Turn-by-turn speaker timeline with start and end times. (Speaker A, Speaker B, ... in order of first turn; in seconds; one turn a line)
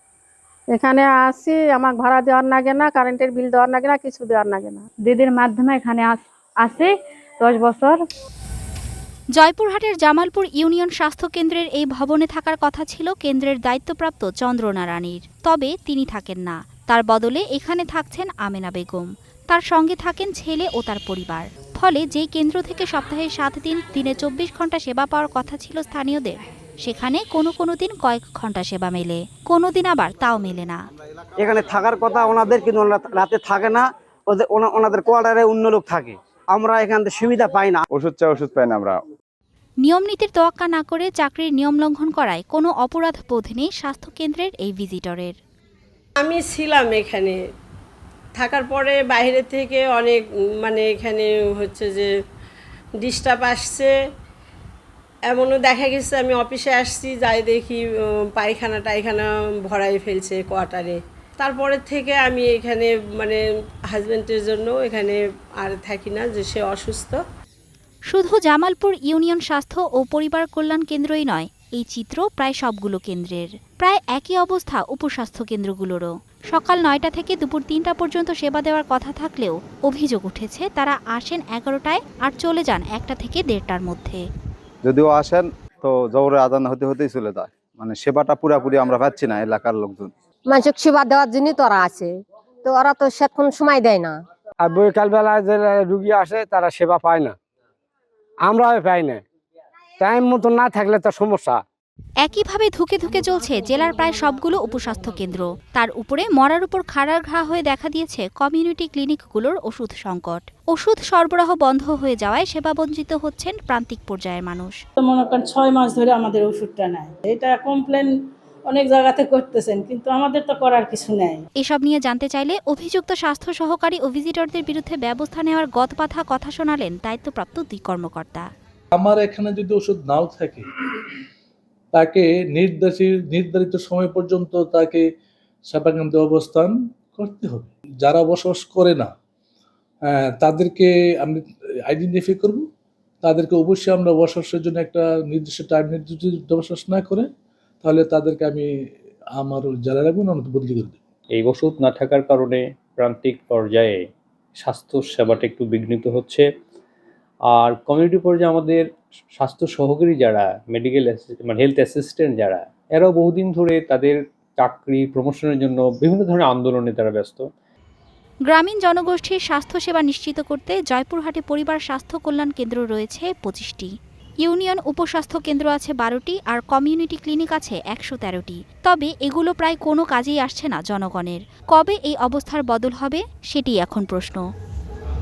Speaker A: 0.7-4.8
Speaker B: 5.0-8.0
Speaker C: 9.4-30.8
Speaker D: 31.4-37.8
Speaker E: 37.9-39.0
Speaker C: 39.8-45.3
Speaker F: 46.2-47.4
Speaker F: 48.4-52.1
Speaker F: 53.0-53.9
Speaker F: 55.3-67.2
Speaker C: 68.1-84.2
Speaker E: 84.8-90.1
Speaker G: 90.5-92.1
Speaker G: 92.7-94.2
Speaker H: 94.6-97.3
Speaker H: 98.4-99.2
Speaker H: 100.0-101.6
Speaker C: 102.2-114.8
Speaker I: 115.0-118.1
Speaker I: 118.7-121.4
Speaker C: 121.6-128.4
Speaker J: 128.9-130.6
Speaker J: 131.9-135.1
Speaker J: 135.7-139.1
Speaker J: 140.0-142.7
Speaker J: 143.2-147.3
Speaker J: 147.8-148.7
Speaker J: 149.4-151.0
Speaker K: 151.3-154.0
Speaker K: 154.6-156.5
Speaker K: 157.5-167.5
Speaker C: 168.5-184.4